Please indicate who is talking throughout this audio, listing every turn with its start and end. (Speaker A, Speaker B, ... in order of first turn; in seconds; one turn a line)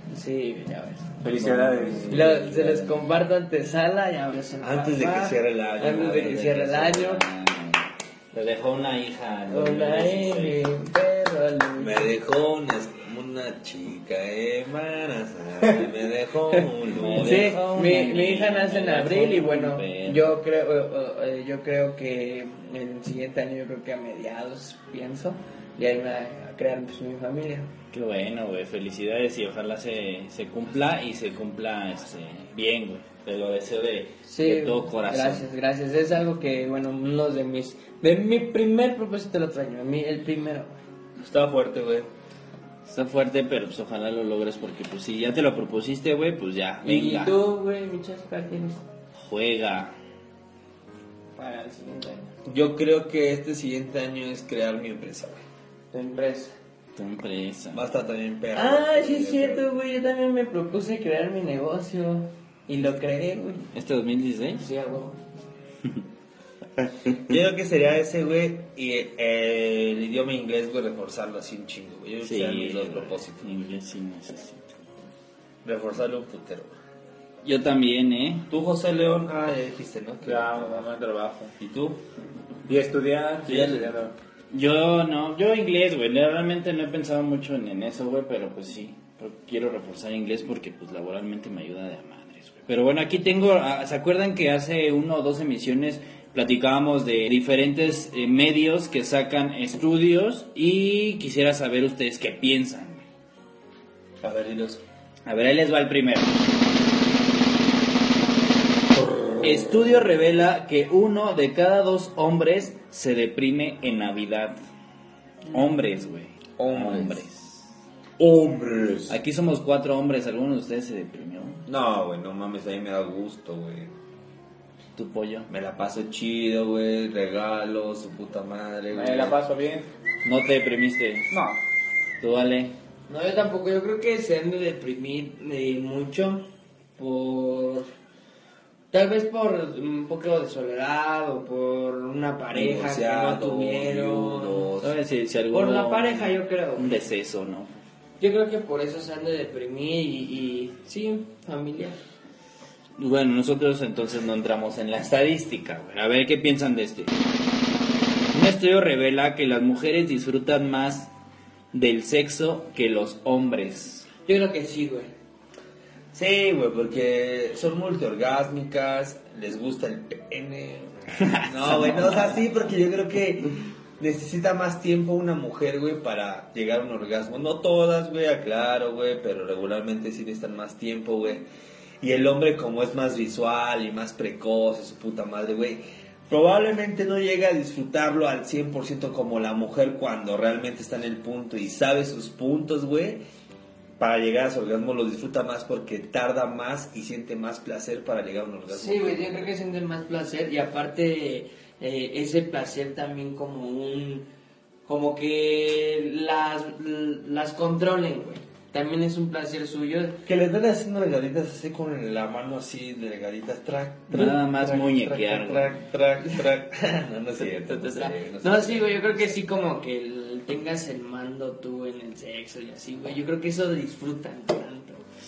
Speaker A: 0.1-1.2
Speaker B: 1.2-2.2
Speaker C: 1.4-3.0
Speaker A: 2.1-7.2
Speaker D: 4.6-6.4
Speaker C: 5.8-10.6
Speaker A: 9.5-12.2
Speaker D: 11.8-17.6
Speaker C: 17.0-20.3
Speaker A: 17.0-27.7
Speaker C: 27.9-35.5
Speaker A: 34.2-40.8
Speaker D: 41.2-42.1
Speaker C: 42.9-47.4
Speaker A: 46.8-48.8
Speaker C: 49.2-49.9
Speaker A: 51.4-52.3
Speaker D: 52.4-55.4
Speaker A: 55.9-56.5
Speaker C: 57.0-57.8
Speaker D: 57.7-59.7
Speaker A: 58.5-63.7
Speaker C: 63.7-64.7
Speaker A: 64.5-65.2
Speaker D: 67.1-73.4
Speaker C: 72.2-74.7
Speaker D: 75.6-76.7
Speaker C: 77.4-78.5
Speaker D: 78.5-80.9
Speaker B: 80.2-81.5
Speaker D: 81.6-82.0
Speaker B: 82.7-84.1
Speaker D: 83.5-83.9
Speaker C: 84.5-103.0
Speaker D: 104.2-104.8
Speaker C: 105.2-106.4
Speaker D: 108.9-110.0
Speaker C: 109.4-114.6
Speaker C: 115.5-117.7
Speaker D: 116.6-117.2
Speaker D: 118.2-119.2
Speaker C: 119.1-121.6
Speaker D: 121.7-123.9
Speaker C: 125.0-125.5
Speaker D: 125.5-129.3
Speaker B: 128.9-129.9
Speaker C: 130.2-131.3
Speaker B: 131.3-131.6
Speaker C: 132.2-132.8
Speaker A: 133.1-137.9
Speaker A: 138.9-144.7
Speaker D: 142.5-144.9
Speaker C: 144.8-147.8
Speaker A: 145.5-146.9
Speaker A: 148.2-152.0
Speaker C: 153.0-157.1
Speaker C: 158.3-161.1
Speaker C: 161.7-164.1
Speaker A: 164.3-165.1
Speaker D: 166.1-181.5
Speaker C: 171.2-172.4
Speaker D: 182.0-193.2
Speaker D: 194.0-199.5
Speaker A: 198.7-204.3
Speaker A: 204.8-210.2
Speaker D: 210.2-219.3
Speaker C: 214.1-215.7
Speaker A: 217.4-225.0